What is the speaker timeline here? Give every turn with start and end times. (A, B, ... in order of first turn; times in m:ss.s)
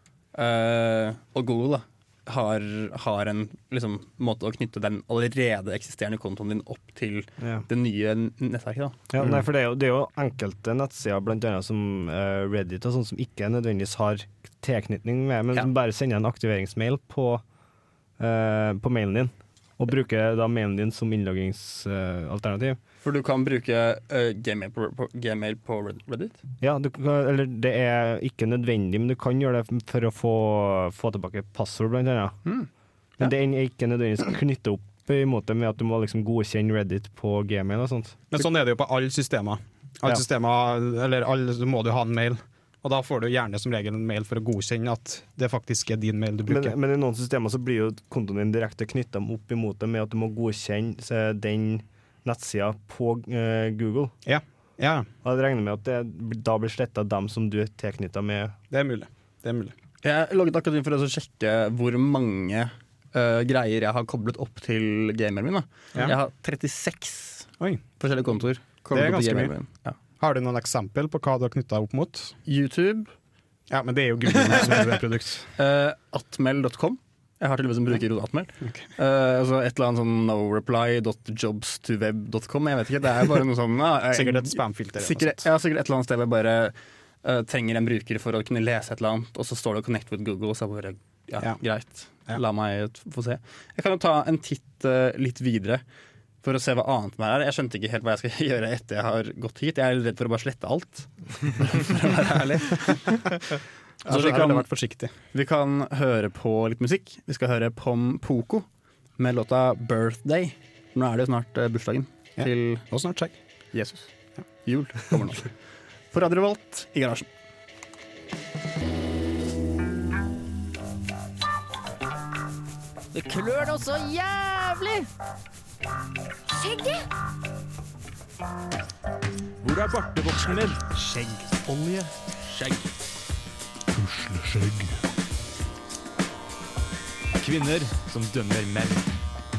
0:00.4-0:09.0 A
0:09.1-0:17.4 B
0:18.2-0:22.8 B
0:23.0-0:26.4 A
0:26.6-0:32.4 B
0:33.2-0:38.3 B
0:38.3-0:46.8 C
0:46.5-0:54.1 B
0:54.3-0:55.1 C
0:55.2-0:58.6 B
0:58.7-0:59.7 C
1:00.0-1:10.0 A
1:08.9-1:09.5 C
1:10.2-1:12.4 C
1:12.4-1:13.1 A
1:13.7-1:15.5 C
1:14.4-1:14.8 A
1:15.6-1:35.8 A
1:24.1-1:25.5 C
1:36.4-1:43.4 A
1:44.0-1:44.7 A
1:44.0-1:45.1 C
1:45.3-1:48.7 A
1:49.2-1:52.8 A
1:52.4-1:53.4 C
1:53.7-1:54.1 A
1:54.6-1:55.5 A
1:56.1-1:57.3 A
2:03.1-2:05.1 D
2:09.6-2:12.9 E
2:13.9-2:15.0 E
2:17.4-2:19.1 E